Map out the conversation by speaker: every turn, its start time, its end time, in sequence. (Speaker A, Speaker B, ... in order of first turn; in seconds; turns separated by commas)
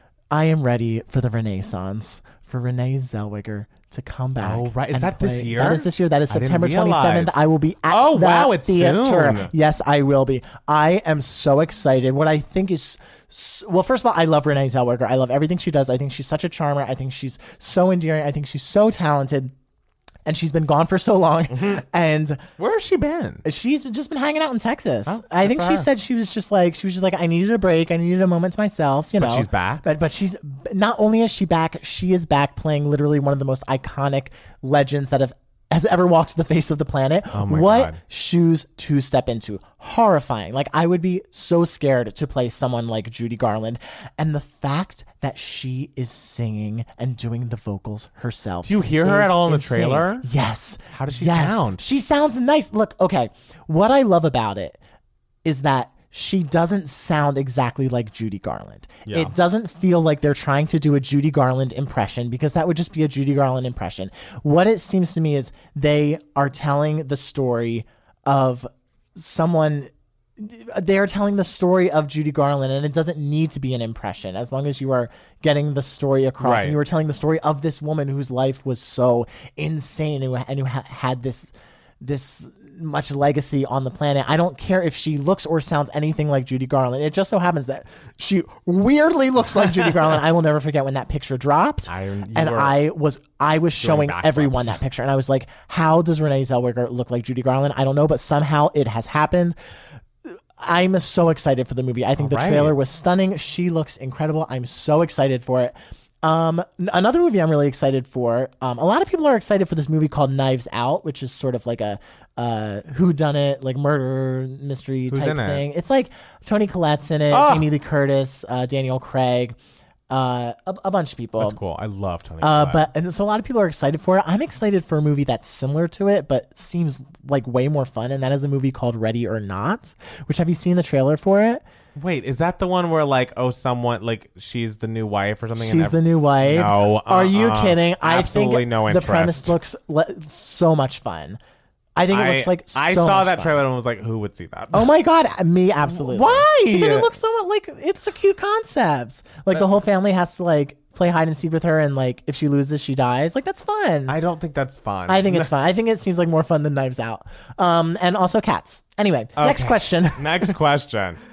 Speaker A: 0.3-19.5, Speaker B: 4.4-7.4, Speaker B: 7.9-9.5, Speaker A: 20.3-22.5, Speaker B: 21.5-21.8, Speaker B: 22.6-23.4, Speaker A: 23.4-54.8, Speaker B: 25.1-25.9, Speaker B: 29.2-29.9, Speaker B: 37.3-38.0, Speaker B: 48.6-50.3, Speaker B: 50.9-51.8, Speaker A: 55.5-99.6, Speaker B: 59.1-59.3, Speaker B: 76.4-76.8, Speaker B: 91.9-92.8, Speaker B: 93.8-94.8, Speaker A: 100.6-119.6, Speaker B: 102.2-102.8, Speaker B: 115.1-115.6, Speaker B: 117.3-117.7, Speaker A: 120.1-121.6, Speaker B: 121.4-122.9, Speaker A: 122.4-131.6, Speaker B: 132.0-139.6, Speaker A: 135.6-141.4, Speaker A: 142.0-143.6, Speaker B: 142.1-144.9, Speaker A: 144.7-154.2, Speaker B: 145.8-147.1, Speaker B: 154.1-155.5, Speaker A: 155.1-160.6, Speaker B: 159.4-161.2